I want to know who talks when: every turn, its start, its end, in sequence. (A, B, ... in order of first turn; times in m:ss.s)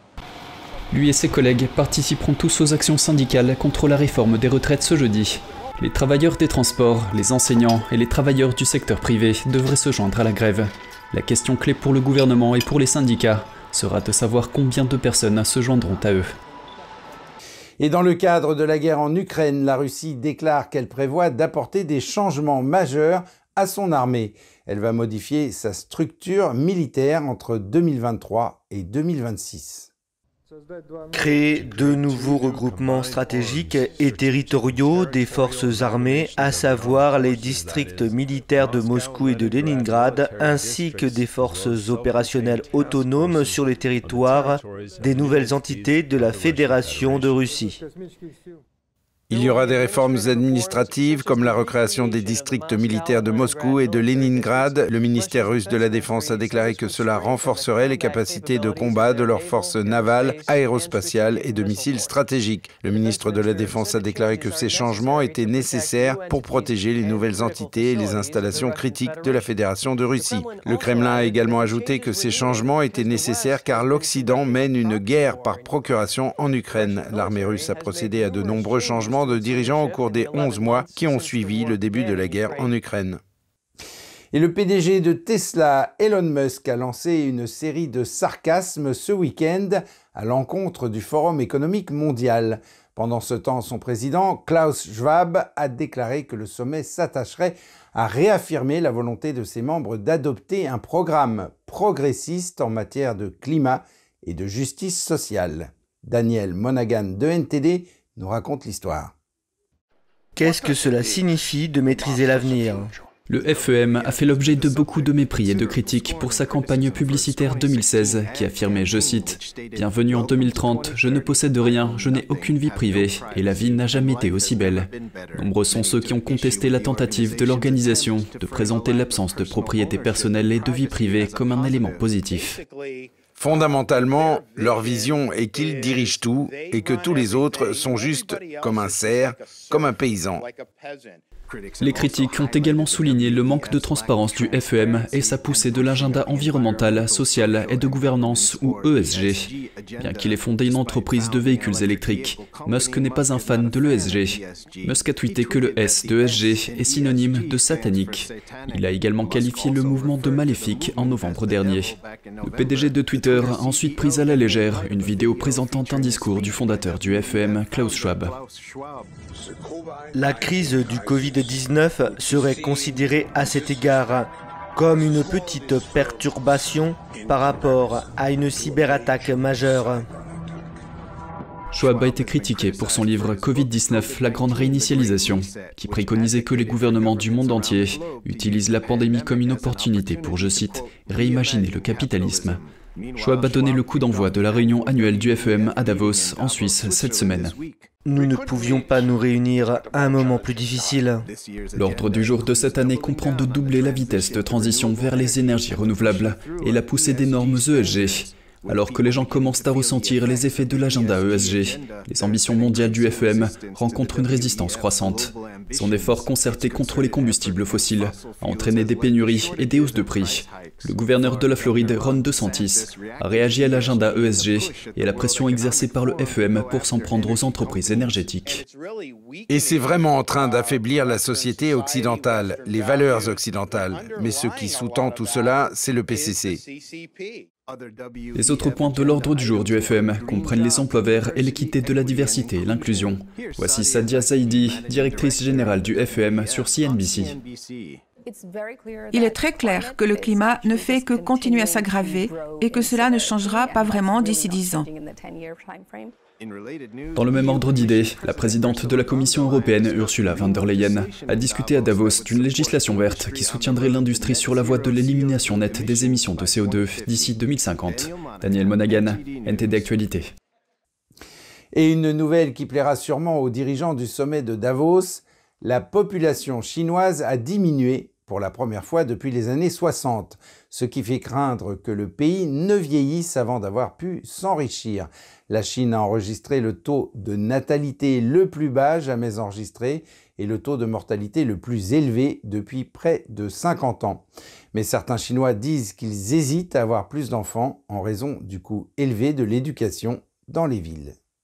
0:00.9-0:16.3 A
0:17.8-0:29.9 B
0:31.1-0:47.8 C
0:49.3-1:23.2 B
1:24.3-1:49.1 B
1:50.4-1:52.9 C
1:53.3-2:12.6 A
2:13.4-2:20.5 B
2:21.8-2:48.4 A
2:50.2-3:00.0 C
3:01.7-3:12.6 A
3:13.2-3:17.5 A
3:18.1-3:21.2 C
3:21.7-3:48.6 A
3:49.5-3:56.6 B
3:58.3-4:07.4 A
4:09.1-4:14.9 D
4:17.1-4:30.3 A
4:31.7-5:01.1 B